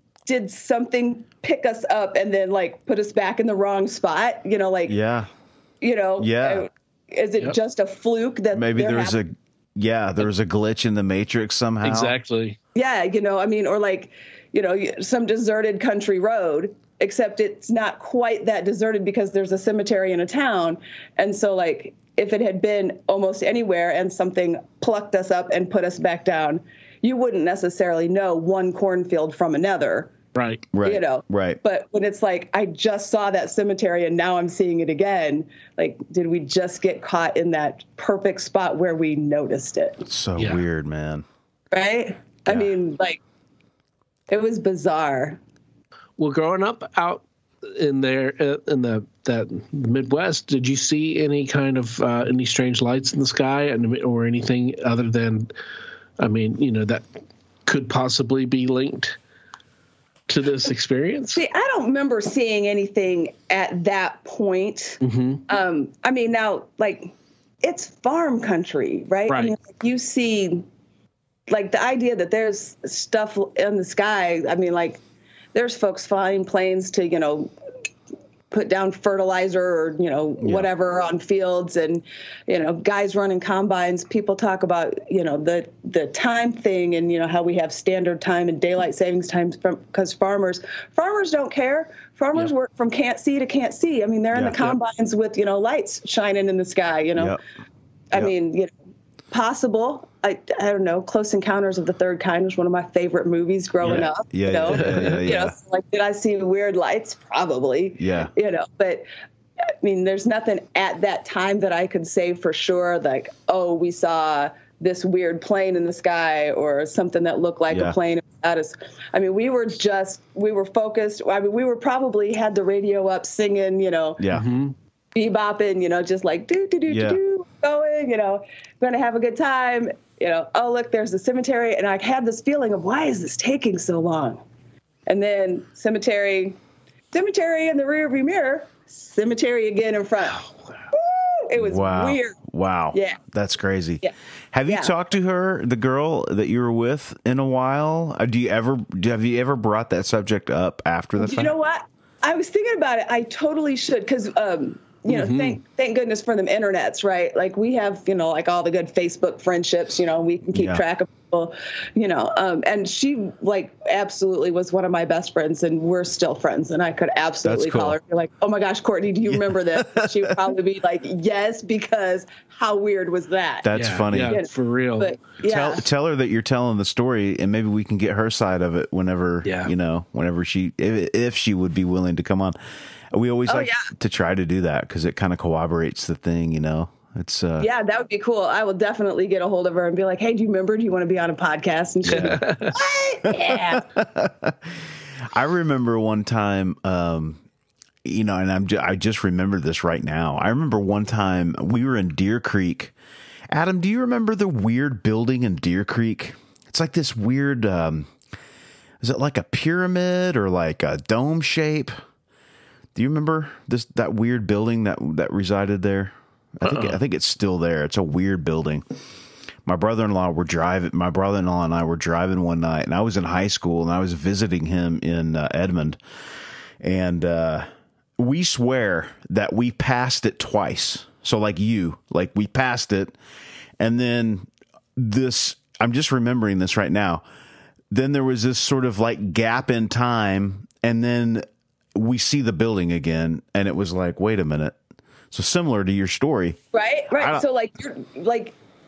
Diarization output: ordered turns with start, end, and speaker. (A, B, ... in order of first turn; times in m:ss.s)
0:00.2-0:05.0 A
0:04.9-0:05.3 B
0:05.8-0:09.2 A
0:06.2-0:06.7 B
0:08.5-0:12.1 B
0:11.8-0:12.6 C
0:12.7-0:30.1 A
0:30.3-0:30.6 C
0:30.7-0:31.6 B
0:30.8-0:40.0 A
0:40.1-0:41.2 B
0:40.4-0:40.6 C
0:41.7-0:43.2 A
0:44.3-0:45.4 A
0:46.2-0:55.5 C
0:56.2-0:57.0 C
0:57.6-0:59.2 C
1:00.3-1:01.4 C
1:01.3-1:10.6 A
1:05.0-1:05.4 C
1:09.3-1:09.5 C
1:11.5-1:15.0 A
1:15.5-1:17.5 A
1:18.5-1:37.4 A
1:20.4-1:20.6 B
1:34.3-1:34.8 B
1:38.1-1:38.7 A
1:39.3-1:49.0 A
1:43.8-1:45.5 B
1:44.7-1:45.2 C
1:48.0-1:48.3 B
1:49.8-2:04.2 A
1:57.7-1:58.0 B
2:04.2-2:04.4 B
2:04.3-2:04.7 C
2:05.1-2:14.4 A
2:06.9-2:07.2 B
2:15.1-2:16.6 A
2:17.1-2:20.4 A
2:20.9-2:22.4 A
2:21.6-2:31.5 B
2:22.9-2:23.2 A
2:24.7-2:24.9 A
2:31.2-2:53.7 A
2:35.1-2:35.6 C
2:40.5-2:40.8 B
2:47.4-2:48.0 B
2:49.3-2:50.3 B
2:53.6-2:54.4 B
2:53.7-2:55.1 C
2:54.3-2:55.8 A
2:55.4-3:02.5 B
2:59.4-2:59.7 C
3:03.1-3:07.7 B
3:03.5-3:03.9 A
3:07.6-3:13.8 A
3:12.0-3:12.4 B
3:12.1-3:12.7 C
3:13.3-3:14.6 B
3:15.3-3:17.4 B
3:18.0-3:22.9 B
3:23.5-3:28.1 B
3:29.0-3:31.9 B
3:32.9-3:38.8 B
3:36.6-3:37.0 C
3:39.6-3:46.0 B
3:46.8-3:47.7 B
3:48.2-3:53.2 B
3:53.8-3:57.2 B
3:57.9-4:04.8 B
4:05.3-4:06.6 B
4:06.7-4:08.6 A
4:07.1-4:07.4 B